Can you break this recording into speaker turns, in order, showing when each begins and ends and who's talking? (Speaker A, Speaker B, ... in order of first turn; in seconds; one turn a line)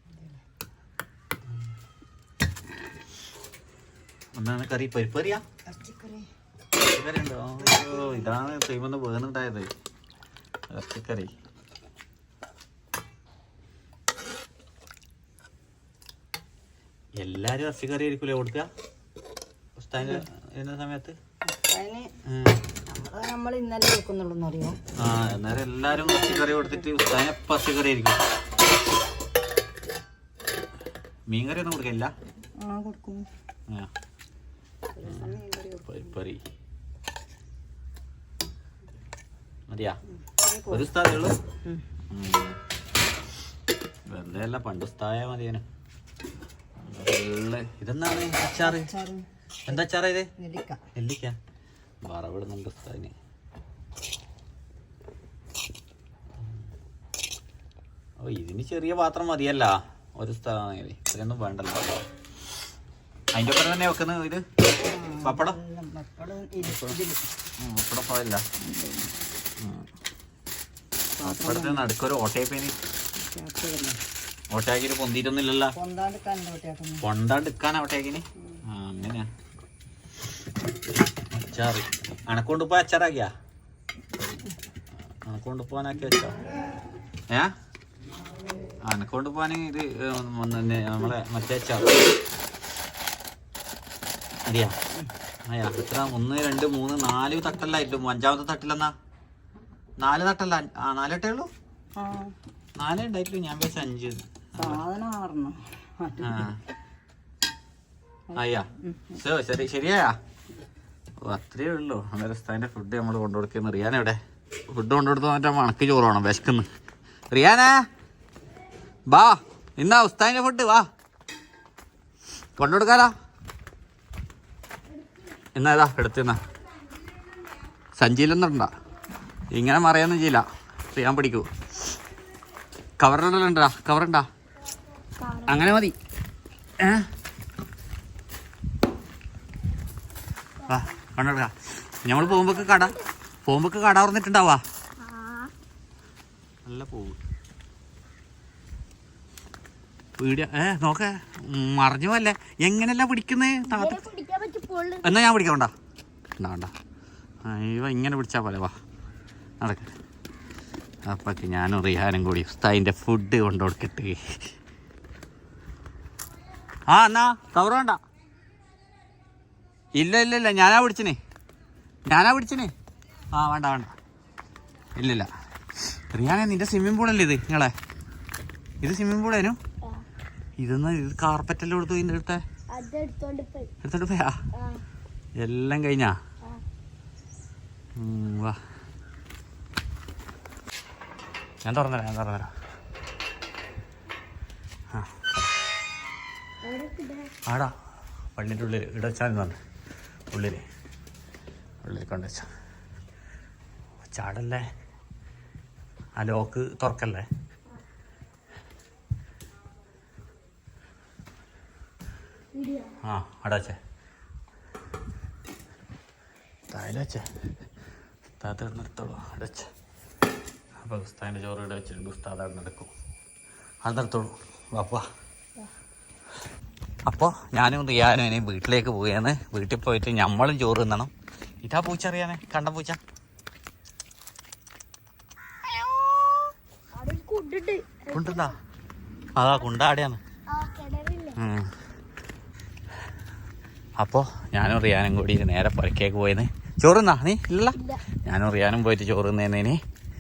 Speaker A: 4.3-5.4
Speaker B: 5.7-6.3
Speaker A: 6.8-9.7
Speaker A: 10.7-11.3
Speaker A: 17.2-18.7
Speaker A: 19.8-21.2
Speaker B: 21.6-22.1
Speaker A: 22.3-22.6
Speaker B: 22.9-24.8
Speaker A: 25.0-28.2
Speaker B: 25.9-26.9
Speaker A: 31.3-32.1
Speaker B: 32.6-33.3
Speaker B: 35.0-36.1
Speaker A: 35.1-35.3
Speaker A: 35.9-36.4
Speaker A: 39.7-40.0
Speaker B: 40.3-40.9
Speaker A: 40.7-41.4
Speaker A: 42.1-42.6
Speaker A: 44.1-45.6
Speaker A: 46.8-48.9
Speaker B: 48.6-49.3
Speaker A: 49.7-50.3
Speaker B: 50.4-50.8
Speaker A: 50.9-51.4
Speaker A: 52.0-53.1
Speaker A: 58.2-62.0
Speaker A: 63.3-64.5
Speaker B: 64.8-67.2
Speaker A: 65.2-65.6
Speaker A: 66.6-67.0
Speaker A: 67.6-68.4
Speaker B: 68.6-69.2
Speaker A: 69.6-69.9
Speaker B: 71.2-71.9
Speaker A: 71.2-72.8
Speaker B: 73.2-74.0
Speaker A: 74.5-75.8
Speaker B: 75.8-77.0
Speaker A: 77.0-79.3
Speaker A: 81.3-83.3
Speaker A: 85.3-86.4
Speaker A: 88.9-92.1
Speaker A: 94.5-94.8
Speaker A: 95.5-98.9
Speaker A: 100.0-101.5
Speaker B: 102.0-102.3
Speaker A: 102.8-104.8
Speaker B: 104.6-106.5
Speaker A: 106.2-106.6
Speaker B: 108.3-109.2
Speaker A: 108.3-110.2
Speaker A: 111.2-116.7
Speaker A: 117.3-117.8
Speaker A: 119.1-120.9
Speaker A: 122.6-123.1
Speaker A: 125.5-126.4
Speaker A: 128.0-128.7
Speaker A: 129.5-131.5
Speaker A: 133.0-134.3
Speaker C: 135.2-135.7
Speaker A: 135.5-135.9
Speaker A: 136.8-137.1
Speaker A: 140.7-144.6
Speaker C: 142.2-143.0
Speaker C: 145.0-145.5
Speaker A: 146.7-147.2
Speaker A: 150.2-154.0
Speaker C: 153.7-155.3
Speaker A: 155.0-155.7
Speaker A: 156.4-156.7
Speaker A: 157.4-158.7
Speaker A: 159.6-159.9
Speaker A: 161.1-164.2
Speaker A: 166.9-168.0
Speaker A: 169.9-171.2
Speaker A: 172.1-172.7
Speaker A: 173.3-173.9
Speaker A: 175.0-175.3
Speaker A: 175.9-177.7
Speaker A: 178.8-179.6
Speaker A: 180.6-182.4
Speaker C: 182.7-183.7
Speaker A: 183.8-184.4
Speaker C: 184.6-184.8
Speaker A: 185.4-186.2
Speaker A: 188.0-188.6
Speaker A: 191.6-192.5
Speaker A: 194.9-195.4
Speaker C: 196.6-197.3
Speaker A: 197.5-197.7
Speaker A: 198.4-199.6
Speaker A: 200.3-200.6
Speaker A: 201.8-202.5
Speaker A: 204.1-204.6
Speaker A: 206.2-207.3
Speaker C: 212.5-213.0
Speaker A: 213.0-213.8
Speaker A: 216.7-217.3
Speaker A: 218.4-219.7
Speaker A: 220.8-222.9
Speaker A: 223.8-225.0
Speaker A: 227.1-231.1
Speaker A: 231.6-233.0
Speaker C: 235.7-236.3
Speaker C: 236.9-238.6
Speaker A: 238.1-238.5
Speaker A: 239.4-240.2
Speaker C: 240.5-241.4
Speaker A: 241.4-241.7
Speaker A: 244.0-249.8
Speaker C: 247.8-248.0